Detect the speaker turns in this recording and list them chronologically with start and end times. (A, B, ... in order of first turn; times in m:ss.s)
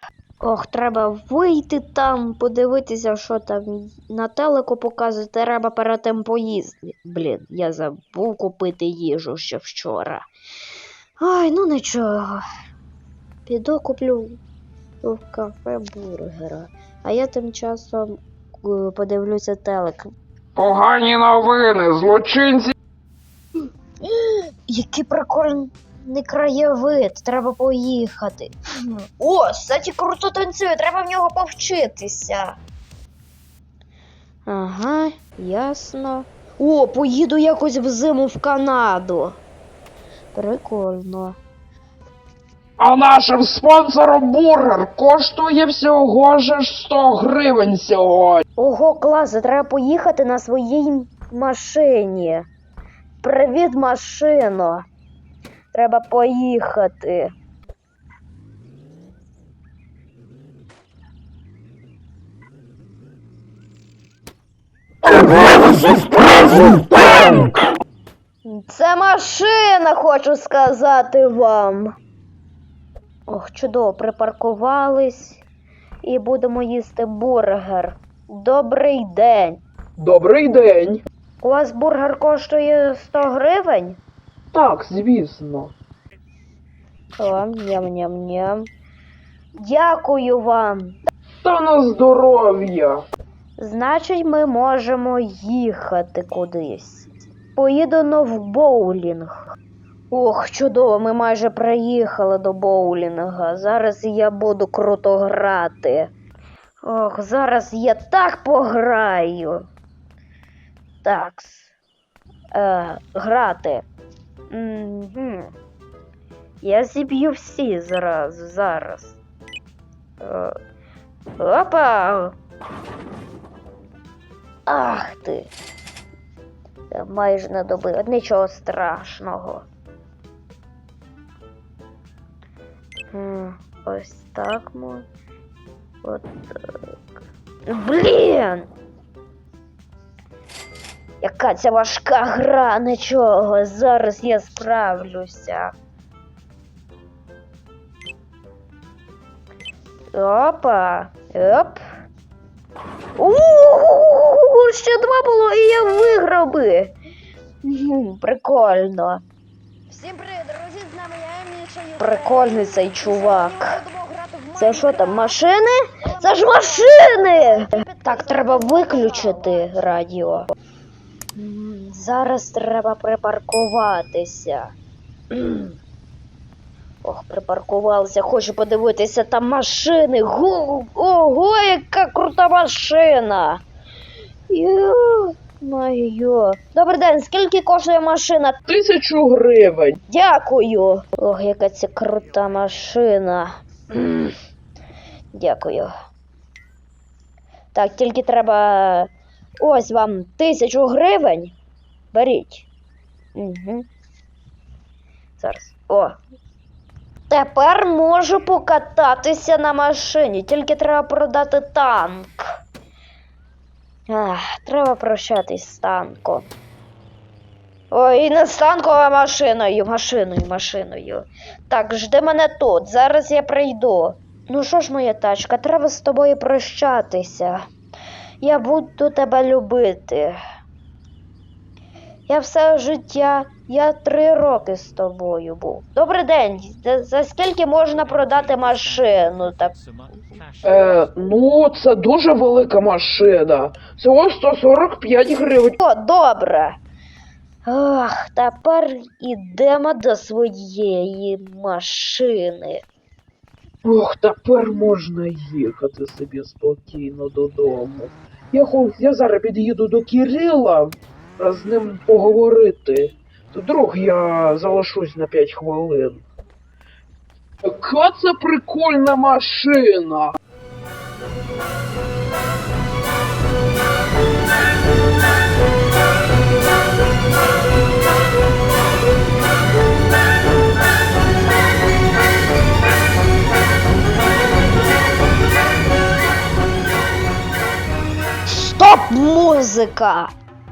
0:00.4-0:10.2 A
0:11.2-0:12.4 A
0:13.5-0:14.4 A
0:15.0-0:20.1 A
0:20.6-0:22.7 B
0:24.0-0:32.6 A
0:34.5-0:39.4 A
0:40.3-0:41.4 A
0:42.8-0:48.4 B
0:48.6-0:52.5 A
0:53.2-0:54.8 A
0:55.7-0:57.3 A
1:08.4-1:12.0 A
1:13.3-1:15.4 A
1:16.0-1:19.6 A
1:20.0-1:21.0 B
1:21.4-1:24.0 A
1:24.5-1:25.7 B
1:27.2-1:28.7 A
1:29.6-1:31.0 A
1:31.4-1:33.0 B
1:33.6-1:39.4 A
1:40.1-1:46.1 A
1:46.8-1:49.7 A
1:51.0-1:51.7 A
1:52.5-1:53.8 A
1:54.5-1:55.5 A
1:56.6-1:59.2 A
2:00.2-2:00.6 A
2:01.4-2:02.4 A
2:04.7-2:05.5 A
2:06.9-2:09.6 A
2:13.1-2:15.1 A
2:16.0-2:16.8 A
2:17.7-2:18.7 A
2:21.2-2:25.7 A
2:30.1-2:31.8 A
2:33.2-2:36.9 A
2:37.6-2:39.2 A
2:39.9-2:49.7 C
2:42.0-2:43.8 A
2:44.6-2:50.5 A
2:51.4-2:54.7 A
2:55.3-2:55.7 A
2:57.0-3:03.6 A
3:04.5-3:08.6 A
3:08.7-3:10.0 B
3:10.1-3:14.4 A
3:15.3-3:15.9 A
3:17.7-3:21.6 A
3:22.1-3:22.7 A
3:23.4-3:23.9 A
3:25.4-3:26.2 A
3:27.3-3:32.4 A
3:34.1-3:36.5 A
3:37.9-3:47.6 A
3:48.4-3:50.4 A
3:52.3-3:59.8 A
4:00.6-4:05.8 B
4:05.8-4:06.8 A
4:07.6-4:12.8 A
4:13.8-4:26.3 B
4:27.6-4:30.4 B
4:48.4-4:50.3 A